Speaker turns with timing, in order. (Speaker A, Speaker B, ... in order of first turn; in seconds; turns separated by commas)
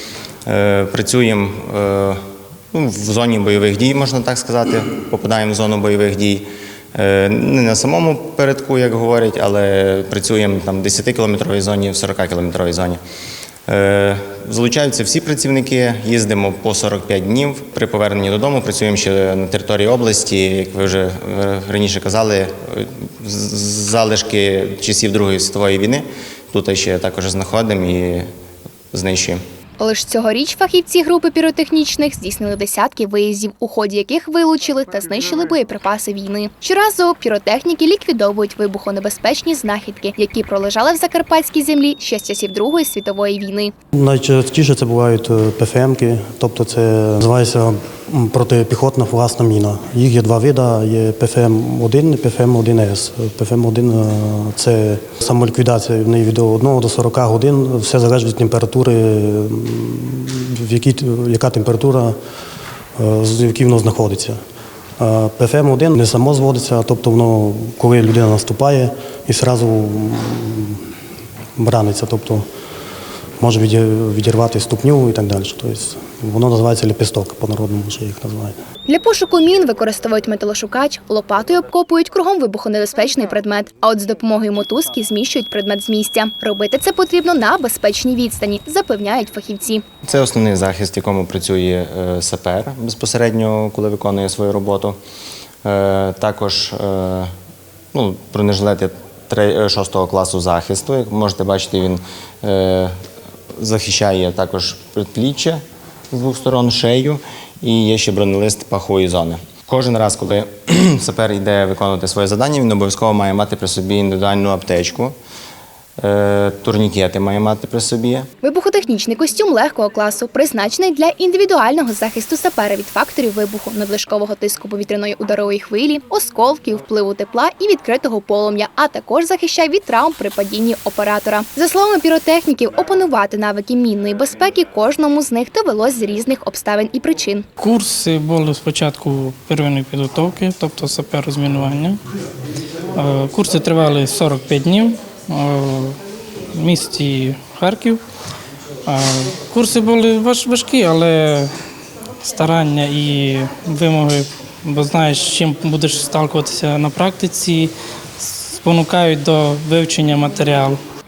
Speaker A: 0.5-2.2, Speaker A: 2.7-13.0, Speaker A: 13.7-28.3, Speaker A: 28.9-29.4, Speaker B: 29.8-43.7, Speaker C: 43.9-62.2, Speaker C: 63.0-64.4, Speaker C: 65.0-70.8, Speaker C: 71.6-72.5, Speaker C: 73.4-78.5, Speaker B: 78.9-89.8, Speaker A: 90.1-95.0, Speaker A: 95.6-97.3, Speaker A: 97.9-102.9, Speaker A: 103.6-105.6, Speaker A: 106.1-115.2, Speaker A: 116.0-118.3, Speaker B: 118.4-137.5, Speaker D: 137.6-142.0, Speaker D: 142.9-146.0, Speaker D: 146.5-148.0, Speaker D: 148.9-151.5, Speaker D: 152.2-160.8